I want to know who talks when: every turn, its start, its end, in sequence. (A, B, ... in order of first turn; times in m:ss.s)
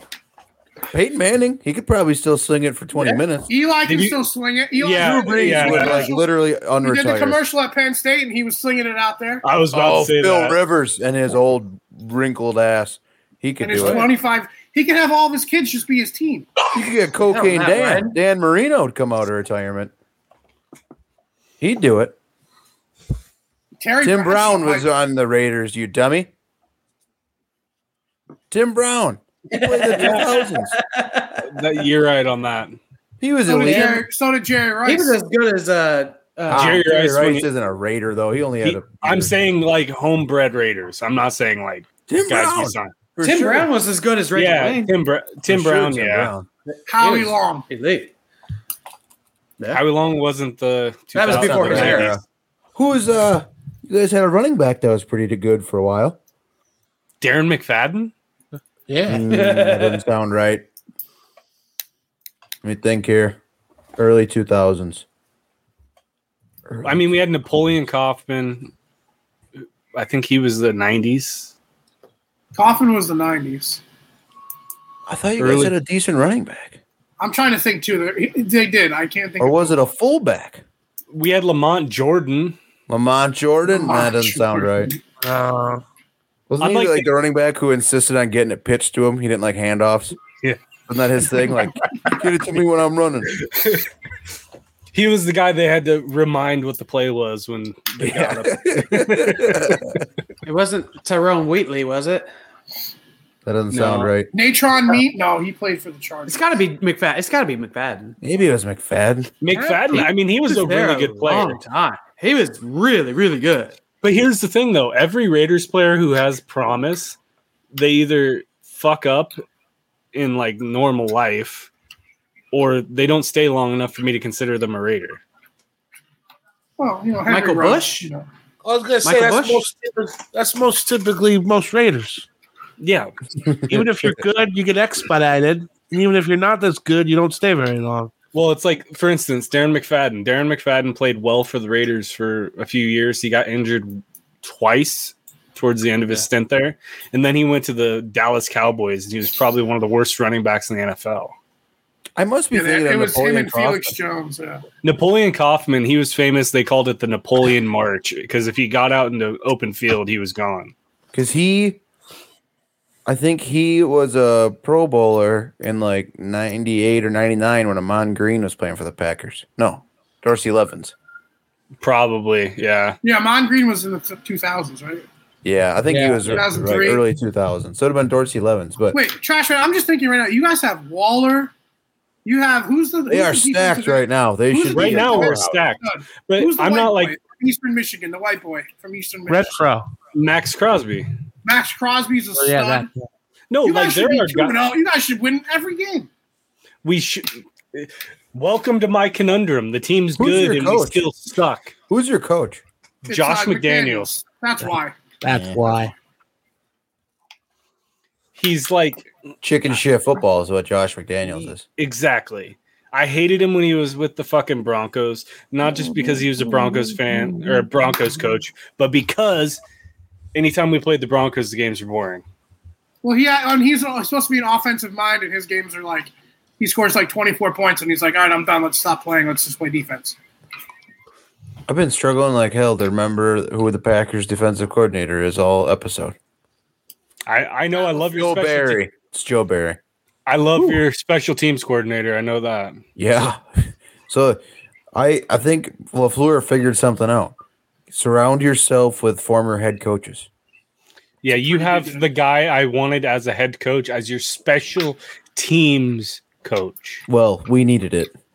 0:00.9-0:03.5 A
0:03.5-0:06.2 B
0:03.9-0:04.2 C
0:04.8-0:06.1 C
0:04.9-0:07.4 A
0:06.8-0:09.4 B
0:09.4-0:10.6 C
0:09.7-0:14.1 A
0:13.6-0:16.5 B
0:16.7-0:19.9 A
0:17.2-0:18.2 D
0:21.6-0:22.1 A
0:23.8-0:24.9 B
0:24.0-0:26.3 A
0:28.5-0:30.7 A
0:29.5-0:31.4 D
0:31.4-0:32.8 C
0:33.2-0:34.0 A
0:33.5-0:35.2 B
0:33.6-0:34.0 D
0:34.8-0:36.8 D
0:36.5-0:39.4 A
0:36.5-0:37.5 C
0:38.6-0:42.9 C
0:42.1-0:43.7 A
0:43.2-0:44.9 D
0:44.3-0:46.3 C
0:45.5-0:46.5 A
0:46.7-0:48.1 D
0:46.9-0:47.6 B
0:49.7-0:52.2 C
0:51.1-0:52.1 D
0:51.3-0:52.2 A
0:52.7-0:56.2 A
0:57.2-0:58.1 C
0:58.9-0:59.2 E
0:59.0-1:00.6 A
0:59.3-1:00.0 D
1:02.6-1:03.4 A
1:04.0-1:05.0 A
1:06.7-1:06.9 A
1:06.8-1:08.7 C
1:09.6-1:11.5 C
1:12.5-1:13.8 B
1:15.0-1:16.8 A
1:15.4-1:15.7 C
1:17.2-1:19.8 B
1:19.4-1:20.6 A
1:21.1-1:22.6 C
1:22.9-1:24.9 A
1:23.7-1:25.0 B
1:25.2-1:25.8 E
1:26.5-1:30.2 A
1:26.6-1:27.1 C
1:30.9-1:33.5 A
1:33.6-1:33.8 C
1:34.9-1:40.0 C
1:38.0-1:40.0 A
1:40.4-1:42.3 D
1:43.4-1:44.3 A
1:43.7-1:44.1 C
1:44.3-1:46.4 B
1:46.3-1:48.2 D
1:48.2-1:49.3 A
1:49.4-1:51.6 C
1:49.5-1:53.8 D
1:54.0-1:57.2 C
1:57.7-1:59.3 C
2:00.1-2:01.7 C
2:02.5-2:05.2 C
2:06.8-2:08.3 B
2:07.2-2:08.1 D
2:08.6-2:12.2 E
2:09.0-2:09.6 D
2:12.8-2:13.1 C
2:13.7-2:18.1 E
2:13.7-2:14.0 A
2:18.3-2:31.3 C
2:32.2-2:33.9 A
2:32.5-2:34.6 B
2:34.8-2:40.7 C
2:41.1-2:41.8 A
2:43.0-2:50.9 A
2:51.8-2:53.0 C
2:53.0-2:55.0 B
2:55.4-2:59.0 A
2:55.9-2:56.4 E
2:56.3-2:57.0 B
2:58.9-3:01.5 B
3:02.2-3:09.6 B
3:03.1-3:05.4 A
3:04.7-3:07.2 C
3:09.3-3:09.9 E
3:10.1-3:11.1 C
3:11.4-3:12.9 B
3:12.4-3:12.8 E
3:13.5-3:14.7 C
3:13.6-3:16.1 B
3:16.8-3:21.7 C
3:20.2-3:21.0 A
3:21.9-3:22.6 A
3:23.0-3:24.1 C
3:23.1-3:25.0 B
3:24.6-3:25.9 E
3:25.3-3:25.6 A
3:28.4-3:29.1 C
3:29.4-3:31.6 A
3:31.8-3:39.6 C
3:40.3-3:42.2 C
3:43.0-3:50.2 B
3:51.7-3:56.1 A
3:57.3-3:58.8 C
3:57.8-3:59.8 A
4:00.3-4:02.8 C
4:00.5-4:00.8 A
4:03.0-4:04.4 A
4:04.9-4:07.3 A
4:07.9-4:10.3 A
4:11.2-4:17.0 C
4:11.3-4:12.0 B
4:17.1-4:18.1 A